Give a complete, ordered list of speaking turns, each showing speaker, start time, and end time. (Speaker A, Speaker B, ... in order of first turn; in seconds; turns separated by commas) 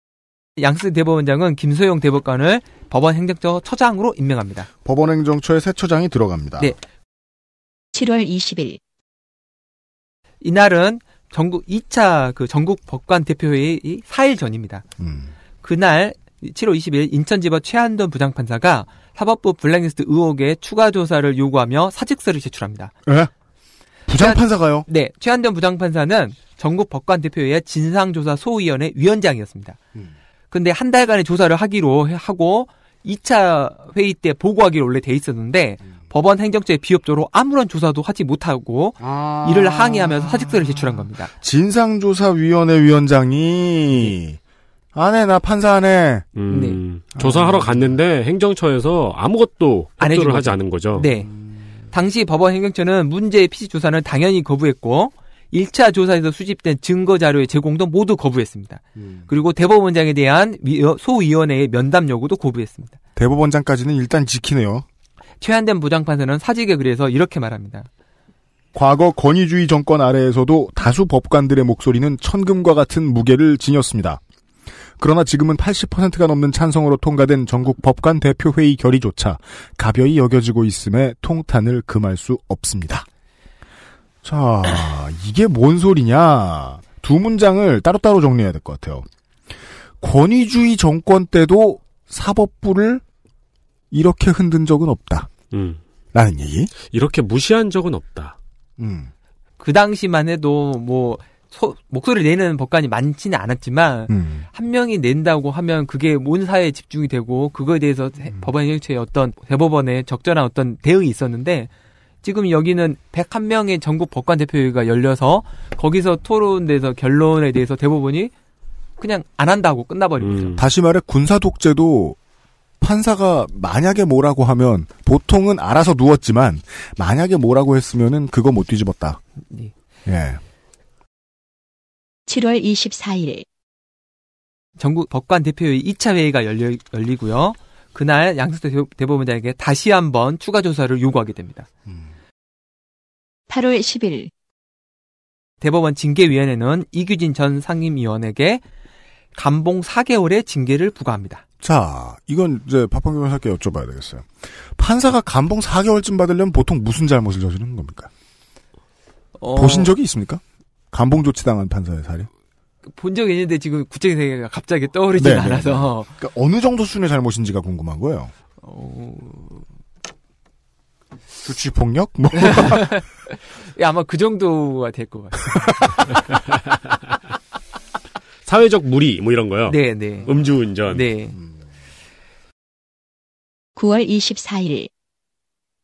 Speaker A: 0.6-4.7, Speaker B: 4.8-6.7, Speaker C: 7.9-8.8, Speaker A: 10.4-14.8, Speaker B: 15.0-15.3, Speaker A: 15.6-22.9, Speaker B: 23.1-23.3, Speaker B: 24.1-24.9, Speaker A: 24.2-29.8, Speaker A: 30.5-41.3, Speaker B: 39.0-44.4, Speaker B: 44.9-46.3, Speaker D: 46.4-51.1, Speaker A: 46.5-46.8, Speaker B: 47.1-48.0, Speaker A: 50.0-51.3, Speaker A: 51.9-63.0, Speaker B: 59.0-59.2, Speaker B: 63.1-64.8, Speaker A: 65.4-67.9, Speaker B: 68.7-74.2, Speaker B: 75.0-83.1, Speaker B: 84.2-89.0, Speaker B: 90.0-93.0, Speaker B: 93.9-95.3, Speaker D: 95.5-95.8, Speaker B: 96.1-96.7, Speaker D: 96.9-98.4, Speaker B: 98.8-99.1, Speaker A: 99.6-111.7, Speaker B: 104.1-104.5, Speaker A: 112.2-118.3, Speaker A: 119.0-120.6, Speaker D: 120.2-120.6, Speaker B: 120.6-122.2, Speaker B: 122.8-129.2, Speaker B: 130.1-130.4, Speaker C: 132.3-133.4, Speaker A: 134.8-141.7, Speaker C: 143.5-144.3, Speaker A: 145.6-148.6, Speaker A: 149.3-151.4, Speaker B: 151.6-158.1, Speaker A: 159.4-159.9, Speaker B: 159.5-162.3, Speaker A: 162.9-166.1, Speaker B: 165.2-168.3, Speaker A: 168.6-169.6, Speaker B: 171.4-172.9, Speaker A: 172.3-175.7, Speaker B: 175.5-176.1, Speaker D: 178.4-181.0, Speaker A: 179.7-180.3, Speaker A: 180.9-181.3, Speaker C: 183.8-184.9